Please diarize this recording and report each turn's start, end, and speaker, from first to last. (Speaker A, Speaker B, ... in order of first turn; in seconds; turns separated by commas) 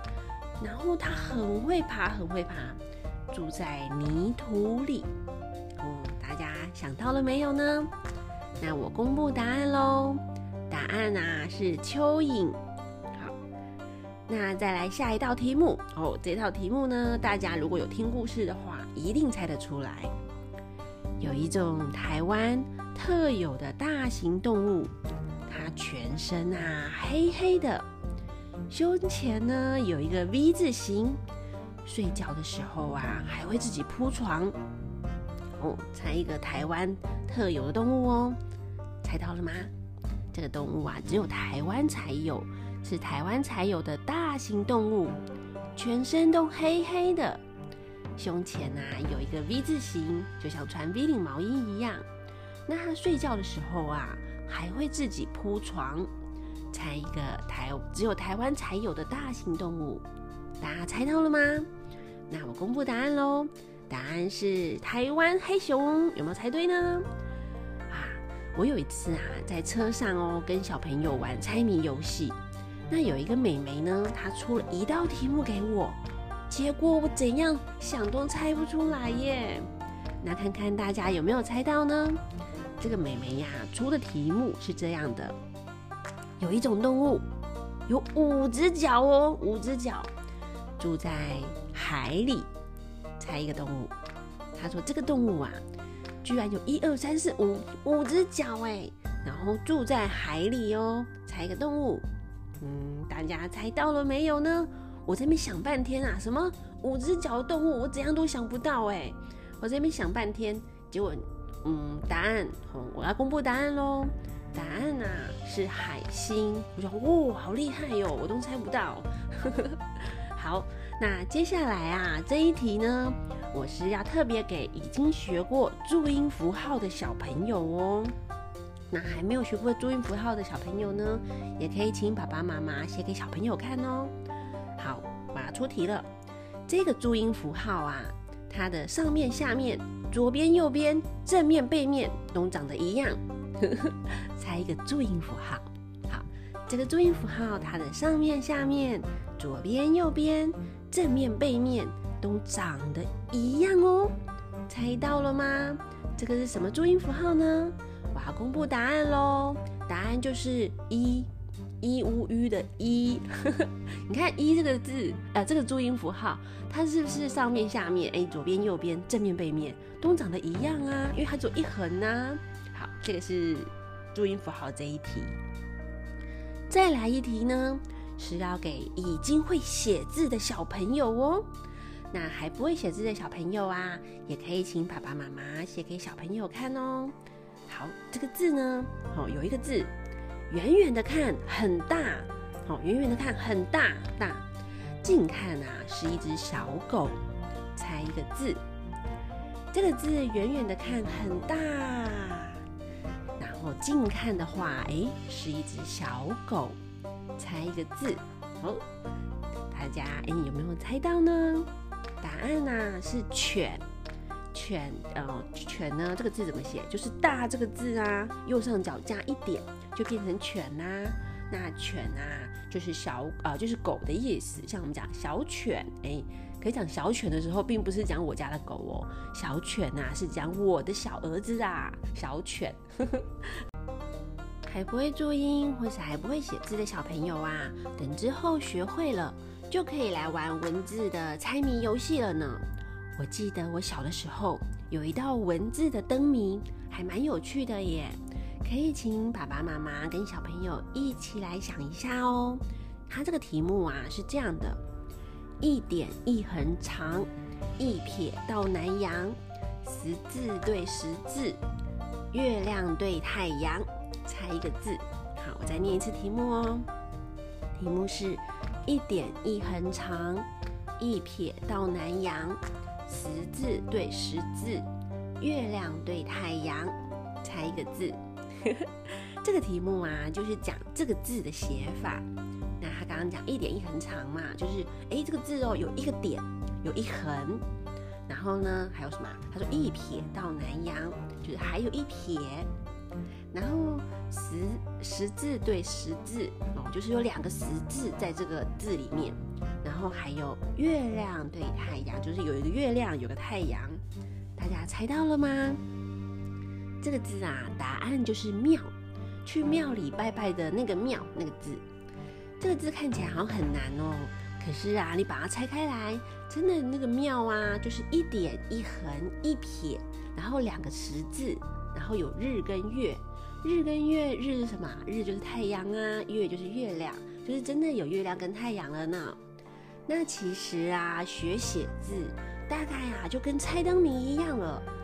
Speaker A: 0.6-5.1, Speaker A: 5.8-7.9, Speaker A: 8.6-12.6, Speaker A: 14.3-20.1, Speaker A: 21.2-24.9, Speaker A: 25.4-27.9, Speaker A: 28.7-31.2, Speaker A: 31.8-34.5, Speaker A: 35.6-38.4, Speaker A: 39.0-39.7, Speaker A: 40.3-45.2, Speaker A: 45.8-47.4, Speaker A: 48.2-52.0, Speaker A: 52.7-56.1, Speaker A: 56.7-60.0, Speaker A: 60.6-61.7, Speaker A: 62.3-67.0, Speaker A: 67.9-72.4, Speaker A: 72.9-79.7, Speaker A: 80.2-82.2, Speaker A: 82.8-85.4, Speaker A: 86.4-87.3, Speaker A: 87.9-90.1, Speaker A: 90.8-92.5, Speaker A: 93.2-93.9, Speaker A: 94.5-95.6, Speaker A: 96.2-102.0, Speaker A: 102.6-128.2, Speaker A: 128.9-134.1, Speaker A: 134.8-136.1, Speaker A: 136.7-154.2, Speaker A: 154.7-161.3, Speaker A: 161.8-175.4, Speaker A: 176.7-181.5, Speaker A: 182.1-187.2, Speaker A: 187.7-189.9, Speaker A: 190.5-194.4, Speaker A: 195.0-197.2, Speaker A: 197.7-198.6, Speaker A: 199.7-202.6, Speaker A: 203.4-206.8, Speaker A: 207.4-208.8, Speaker A: 209.7-211.7, Speaker A: 212.2-213.8, Speaker A: 214.5-233.3, Speaker A: 234.7-242.6, Speaker A: 243.2-254.8, Speaker A: 255.6-261.6, Speaker A: 262.3-266.9, Speaker A: 267.7-270.5, Speaker A: 271.0-274.9, Speaker A: 275.4-282.2, Speaker A: 282.8-287.6, Speaker A: 288.3-292.7, Speaker A: 293.5-304.0, Speaker A: 304.6-305.8, Speaker A: 307.0-308.9, Speaker A: 309.4-311.8, Speaker A: 312.6-329.4, Speaker A: 330.1-334.9